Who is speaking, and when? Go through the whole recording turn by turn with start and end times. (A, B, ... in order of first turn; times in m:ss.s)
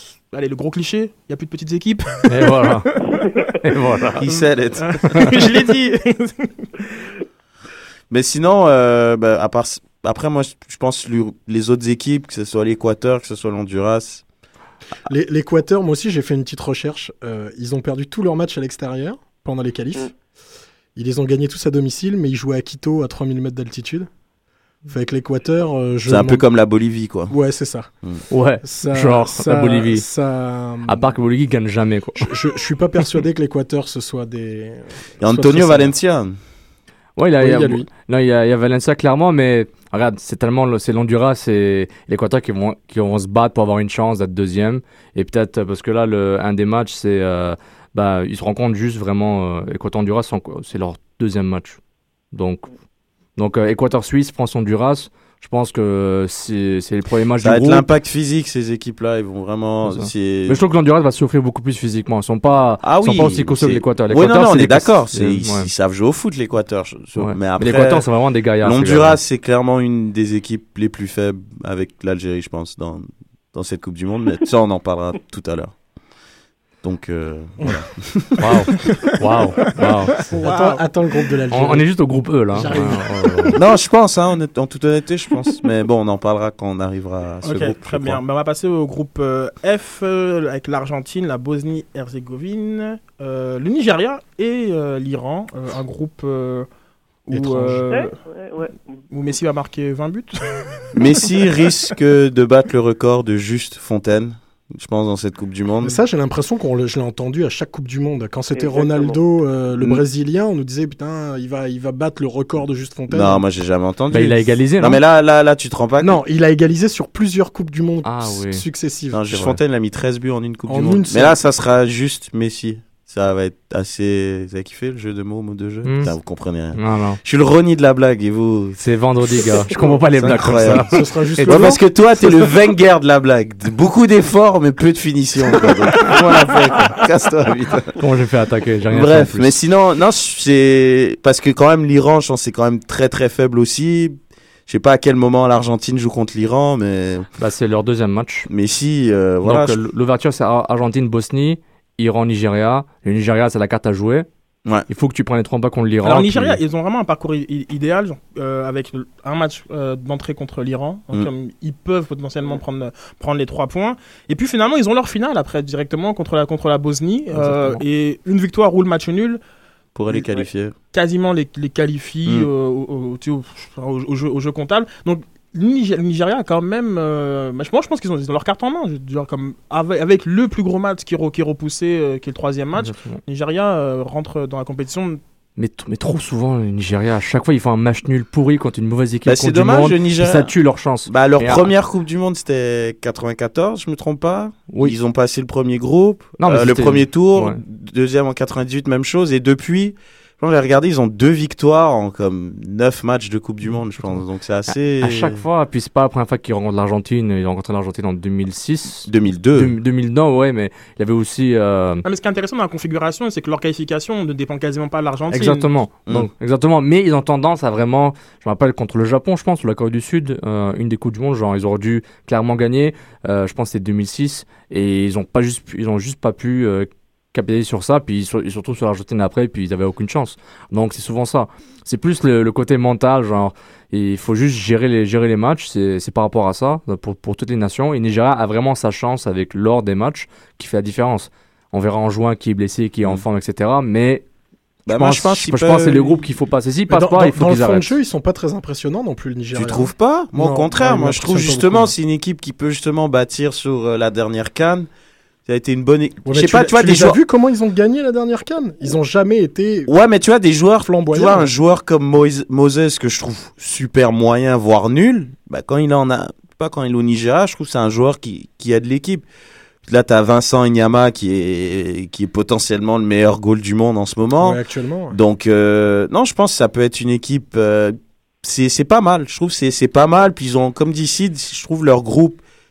0:00.3-0:03.3 A
0:02.3-0:02.9 B
0:03.0-0:03.5 C
0:03.6-0:04.3 B
0:04.2-0:05.5 D
0:04.8-0:06.9 A
0:08.1-0:14.2 D
0:15.1-0:20.2 E
0:21.0-0:24.1 E
0:24.9-0:26.4 E
0:26.1-0:27.3 D
0:27.3-0:27.9 E
0:28.3-0:30.0 B
0:28.6-0:31.2 E
0:30.9-0:32.3 B
0:32.2-0:35.9 E
0:35.2-0:36.4 D
0:37.2-0:51.8 B
0:37.4-0:37.9 E
0:52.3-0:52.7 B
0:53.4-0:57.8 B
0:57.4-1:00.6 D
0:59.8-1:05.7 B
1:02.8-1:08.1 D
1:07.2-1:09.2 B
1:08.6-1:15.8 D
1:16.8-1:18.5 D
1:18.4-1:20.3 B
1:18.8-1:19.2 A
1:20.3-1:23.6 E
1:20.4-1:20.8 A
1:21.5-1:23.6 B
1:23.6-1:28.2 D
1:27.4-1:36.7 A
1:37.3-1:38.2 A
1:37.3-1:37.8 E
1:37.9-1:38.8 C
1:39.1-1:41.2 A
1:41.0-1:46.0 D
1:45.8-1:53.4 E
1:48.5-1:49.2 C
1:49.8-1:50.0 D
1:53.1-1:56.2 D
1:54.1-1:55.0 B
1:56.0-1:59.2 E
1:58.0-1:58.6 B
1:59.1-2:08.8 D
1:59.3-1:59.6 B
2:00.7-2:01.4 E
2:05.8-2:06.1 B
2:06.7-2:07.2 B
2:08.8-2:12.4 B
2:09.4-2:10.9 D
2:10.7-2:11.8 E
2:11.4-2:18.0 D
2:16.0-2:16.9 B
2:18.0-2:19.5 B
2:18.9-2:24.2 D
2:24.7-2:27.3 D
2:27.4-2:28.5 B
2:28.5-2:29.8 D
2:29.4-2:34.3 B
2:34.9-2:36.6 B
2:36.0-2:49.4 A
2:47.4-2:47.8 E
2:50.0-2:50.8 D
2:50.9-3:05.2 A
3:02.8-3:03.2 B
3:05.6-3:11.7 B
3:09.3-3:10.5 D
3:11.1-3:25.4 D
3:14.7-3:15.0 B
3:16.4-3:17.6 B
3:24.7-3:32.0 B
3:29.0-3:29.7 D
3:32.0-3:35.7 A
3:35.3-4:04.2 B
4:04.9-4:06.2 D
4:04.9-4:07.9 B
4:06.9-4:12.0 E
4:09.5-4:14.9 D
4:15.5-4:17.2 D
4:16.2-4:19.9 E
4:19.9-4:29.2 D
4:20.8-4:21.5 E
4:29.8-4:34.6 D
4:34.4-4:35.2 E
4:35.1-4:42.4 D